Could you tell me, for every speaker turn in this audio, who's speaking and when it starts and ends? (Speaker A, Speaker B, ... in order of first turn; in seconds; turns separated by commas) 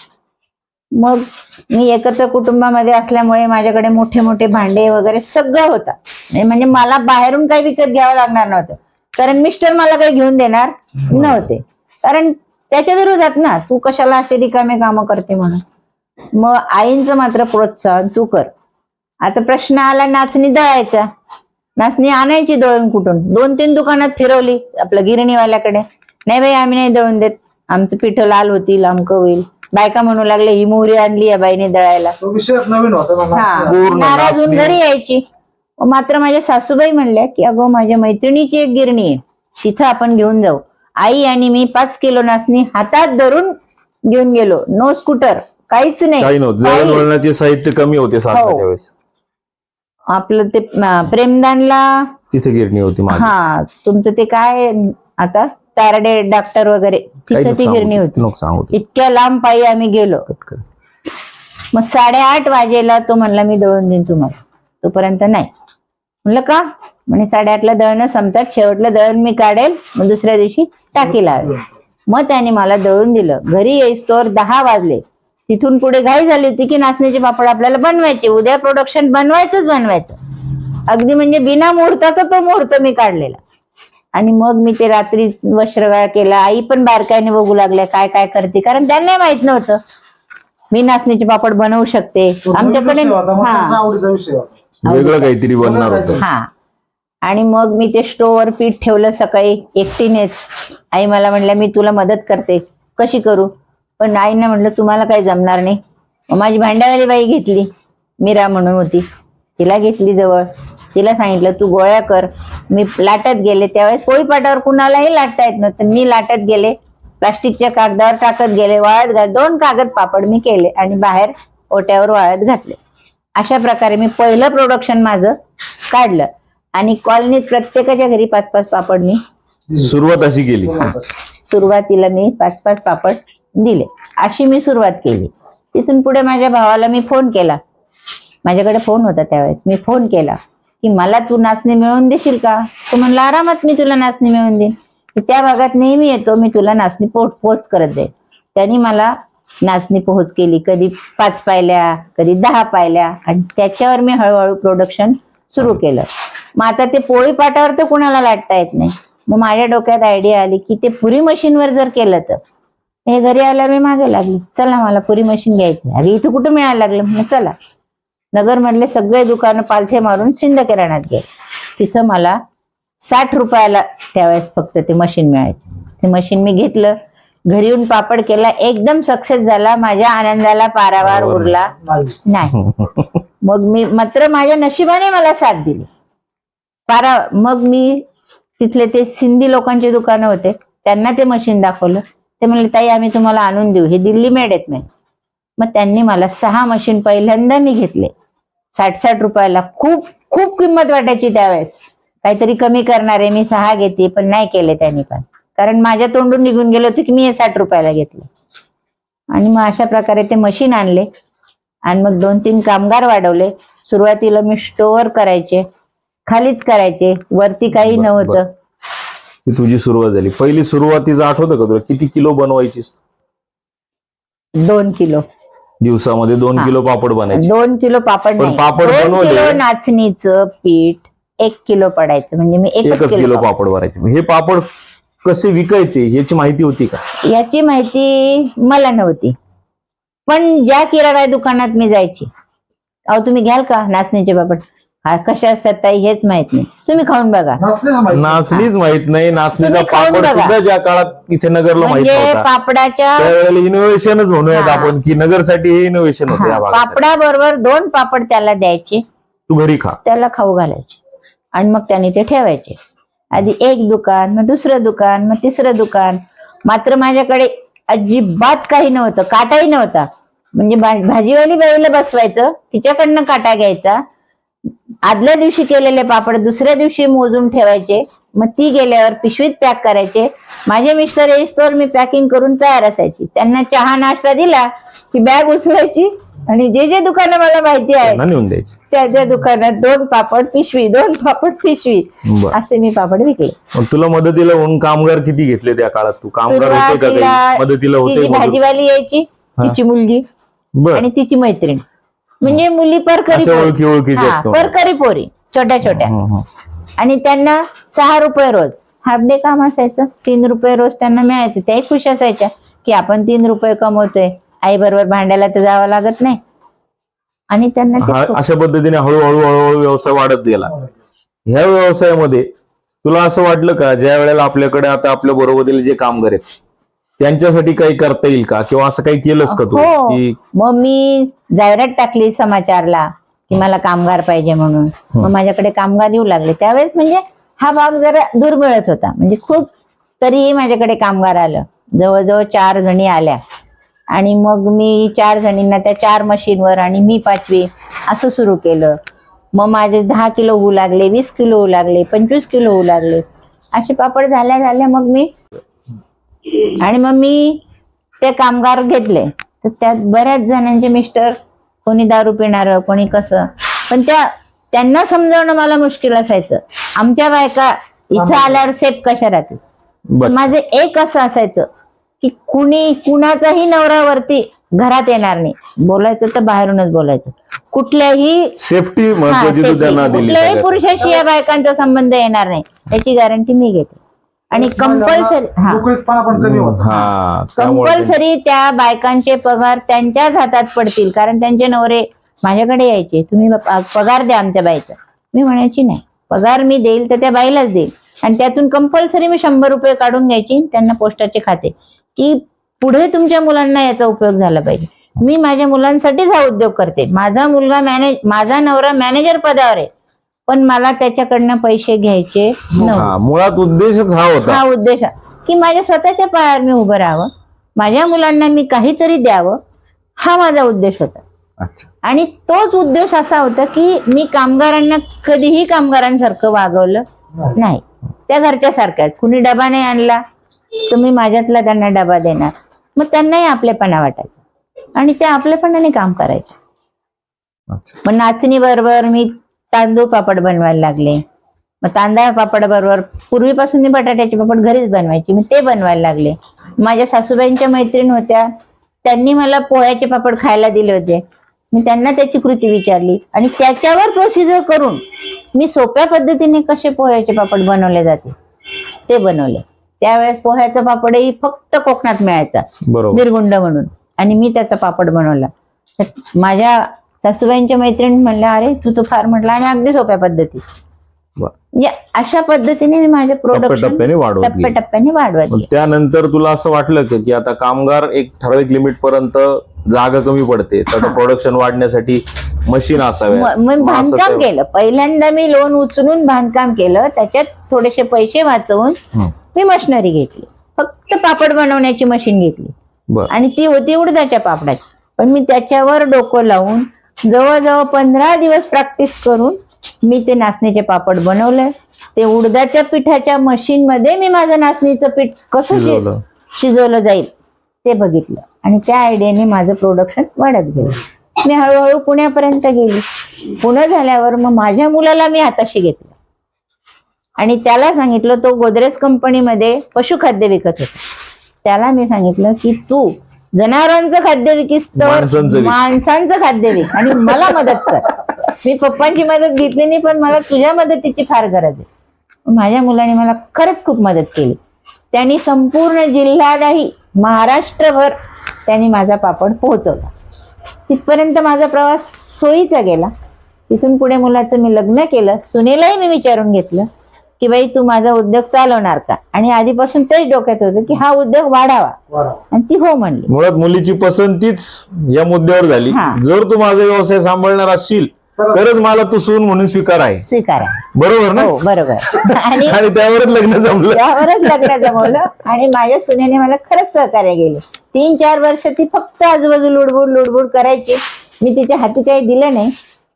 Speaker A: 0.9-15.6, Speaker B: 11.1-11.5, Speaker A: 16.3-18.5, Speaker A: 19.2-21.1, Speaker A: 21.8-32.1, Speaker C: 32.2-33.8, Speaker A: 33.3-35.2, Speaker B: 33.7-34.8, Speaker A: 35.8-43.5, Speaker A: 44.0-47.0, Speaker B: 46.2-48.9, Speaker A: 48.3-48.6, Speaker A: 50.1-52.1, Speaker B: 52.3-53.3, Speaker A: 53.1-60.2, Speaker B: 57.3-58.7, Speaker B: 60.3-60.6, Speaker A: 61.7-65.5, Speaker A: 66.2-71.5, Speaker C: 71.3-71.7, Speaker A: 72.1-80.2, Speaker A: 80.9-83.4, Speaker A: 84.1-89.8, Speaker A: 90.7-93.8, Speaker C: 92.4-94.8, Speaker B: 94.8-96.2, Speaker A: 94.8-95.3, Speaker C: 95.6-96.2, Speaker A: 96.2-96.5, Speaker A: 97.2-105.8, Speaker A: 106.3-107.7, Speaker A: 108.2-109.0, Speaker A: 109.6-122.8, Speaker A: 123.4-125.3, Speaker A: 125.9-129.2, Speaker C: 129.7-129.9, Speaker B: 129.8-130.9, Speaker C: 130.6-131.1, Speaker A: 131.5-137.6, Speaker A: 138.4-162.4, Speaker A: 163.1-167.5, Speaker A: 168.3-172.4, Speaker A: 173.0-176.9, Speaker A: 177.5-181.7, Speaker B: 181.0-181.5, Speaker C: 181.7-182.2, Speaker A: 182.3-182.6, Speaker B: 182.5-183.1, Speaker A: 183.4-185.9, Speaker A: 186.9-188.0, Speaker A: 188.6-194.9, Speaker A: 195.6-198.1, Speaker A: 198.7-208.3, Speaker A: 209.3-211.1, Speaker A: 211.9-215.6, Speaker A: 216.3-218.5, Speaker B: 217.7-218.4, Speaker B: 219.4-223.0, Speaker A: 224.6-225.2, Speaker B: 225.8-227.5, Speaker A: 227.3-233.4, Speaker B: 228.4-229.6, Speaker B: 232.8-234.7, Speaker B: 235.2-237.0, Speaker A: 237.2-239.3, Speaker A: 240.3-242.3, Speaker A: 243.1-247.6, Speaker C: 247.6-248.6, Speaker B: 248.1-252.5, Speaker A: 249.6-250.5, Speaker A: 251.8-253.3, Speaker B: 253.2-257.0, Speaker A: 254.5-254.9, Speaker A: 256.3-259.0, Speaker B: 259.5-260.0, Speaker A: 260.0-261.0, Speaker A: 261.5-262.8, Speaker A: 263.3-274.0, Speaker A: 275.0-288.2, Speaker B: 288.0-288.8, Speaker A: 288.9-293.5, Speaker B: 292.2-292.6, Speaker B: 293.7-298.6, Speaker A: 296.4-300.2, Speaker B: 300.8-301.1, Speaker A: 300.9-301.8, Speaker A: 302.4-306.1, Speaker B: 303.3-304.7, Speaker B: 305.8-306.4, Speaker A: 307.0-316.4, Speaker A: 317.5-318.4, Speaker B: 318.0-320.7, Speaker C: 320.7-320.9, Speaker B: 321.5-322.5, Speaker B: 323.0-326.4, Speaker B: 327.2-330.4, Speaker A: 329.5-339.7, Speaker A: 340.2-343.4, Speaker A: 344.1-348.9, Speaker A: 349.5-355.3, Speaker A: 356.5-357.6, Speaker A: 358.2-369.6, Speaker C: 368.1-368.6, Speaker B: 370.1-370.5, Speaker A: 370.2-371.6, Speaker A: 372.2-378.5, Speaker B: 378.6-380.9, Speaker A: 379.3-384.0, Speaker C: 384.5-386.9, Speaker A: 384.5-385.8, Speaker B: 386.3-388.2, Speaker A: 386.8-409.9, Speaker A: 410.5-413.1, Speaker C: 412.7-413.0, Speaker B: 412.9-414.6, Speaker A: 414.4-419.6, Speaker A: 420.2-421.2, Speaker B: 421.6-421.9, Speaker A: 422.0-427.0, Speaker C: 427.3-427.6, Speaker A: 427.6-430.2, Speaker A: 430.9-434.4, Speaker A: 434.9-436.5, Speaker B: 437.7-438.0, Speaker A: 438.0-441.2, Speaker A: 441.8-448.5, Speaker A: 449.0-455.0, Speaker A: 455.5-458.3, Speaker A: 459.1-470.6, Speaker B: 462.9-463.2, Speaker A: 471.7-475.7, Speaker B: 473.5-474.7, Speaker B: 475.5-484.5, Speaker A: 480.9-481.2, Speaker A: 483.3-489.0, Speaker A: 489.5-492.7, Speaker A: 493.3-507.3, Speaker B: 505.6-506.2, Speaker A: 507.8-516.1, Speaker A: 517.4-521.0, Speaker A: 521.6-531.9, Speaker B: 525.0-525.8, Speaker A: 532.5-534.6, Speaker A: 535.1-538.1, Speaker A: 538.6-540.1, Speaker A: 540.9-543.1, Speaker A: 543.7-546.9, Speaker A: 547.4-551.9, Speaker C: 552.1-552.4, Speaker A: 552.5-553.3, Speaker B: 553.3-560.2, Speaker A: 555.9-556.2, Speaker C: 558.4-558.6, Speaker A: 560.2-560.8, Speaker B: 560.9-561.6, Speaker A: 561.3-562.8, Speaker B: 562.1-565.1, Speaker A: 563.9-572.7